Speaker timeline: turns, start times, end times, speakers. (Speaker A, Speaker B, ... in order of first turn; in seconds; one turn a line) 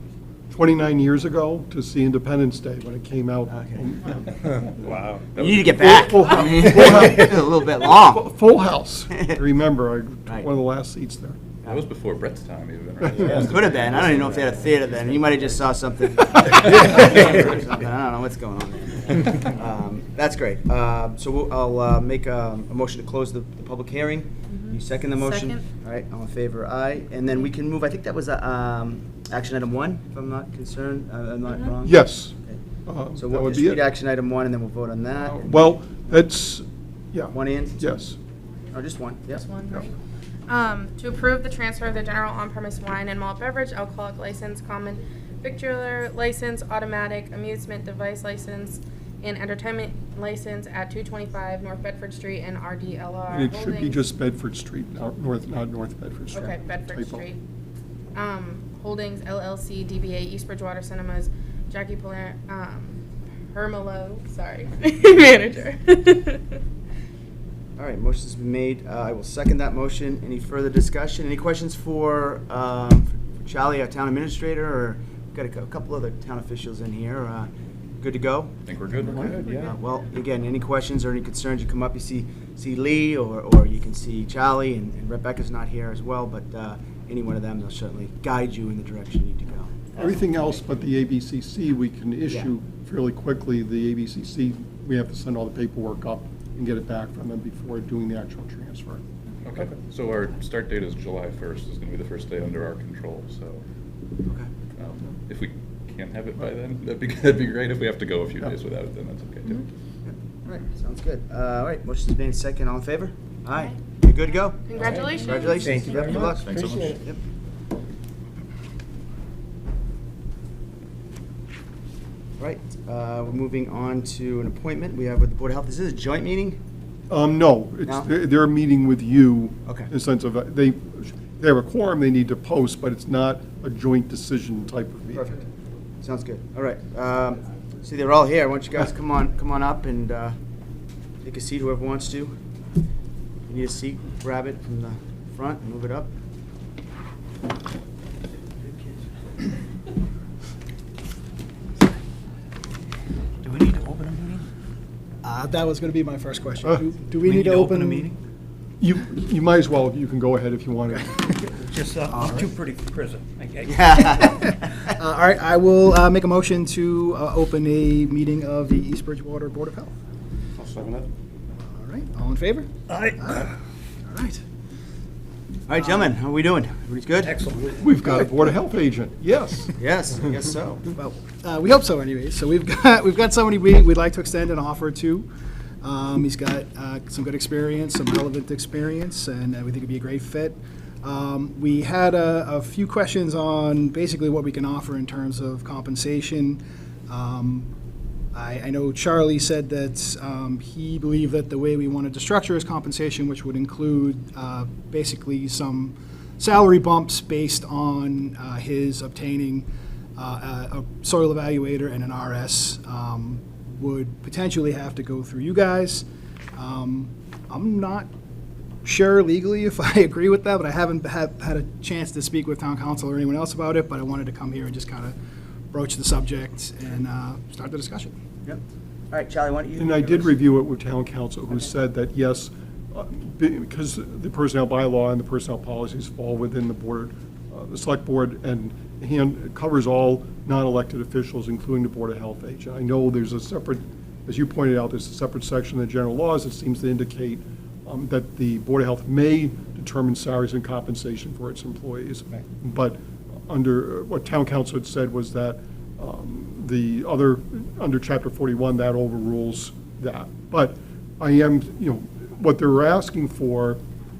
Speaker A: 0.5-5.0
Speaker B: 3.5-3.8
Speaker C: 4.7-6.2
Speaker B: 5.3-8.2
Speaker A: 5.7-11.4
Speaker C: 11.7-15.4
Speaker A: 13.0-13.4
Speaker B: 13.2-32.6
Speaker C: 16.8-17.4
Speaker D: 24.5-25.6
Speaker D: 31.5-31.8
Speaker A: 31.8-33.8
Speaker B: 33.1-35.7
Speaker C: 35.2-35.5
Speaker A: 35.5-38.2
Speaker B: 37.3-37.8
Speaker B: 38.7-39.4
Speaker D: 39.3-39.9
Speaker D: 40.5-54.0
Speaker A: 53.3-57.2
Speaker D: 56.3-57.4
Speaker D: 58.1-66.6
Speaker B: 67.8-77.5
Speaker B: 78.0-90.0
Speaker C: 78.7-79.3
Speaker A: 89.9-99.0
Speaker C: 99.4-103.6
Speaker C: 104.8-109.7
Speaker B: 110.0-117.2
Speaker D: 114.6-116.2
Speaker B: 122.4-126.6
Speaker A: 127.1-135.4
Speaker B: 135.1-135.4
Speaker B: 136.0-140.3
Speaker B: 141.2-142.3
Speaker B: 143.5-146.1
Speaker E: 153.4-154.4
Speaker F: 155.2-158.1
Speaker A: 158.8-161.3
Speaker E: 161.7-163.8
Speaker B: 162.1-162.5
Speaker B: 163.6-164.8
Speaker F: 164.0-169.9
Speaker F: 171.6-173.5
Speaker E: 172.9-173.2
Speaker F: 174.1-174.4
Speaker B: 175.7-177.4
Speaker E: 177.2-177.7
Speaker A: 177.7-179.8
Speaker B: 179.8-180.9
Speaker F: 180.9-185.3
Speaker F: 185.8-197.7
Speaker F: 198.3-209.7
Speaker F: 210.2-216.0
Speaker F: 216.6-218.1
Speaker F: 218.8-225.1
Speaker F: 225.7-228.1
Speaker B: 228.4-230.4
Speaker A: 229.8-263.8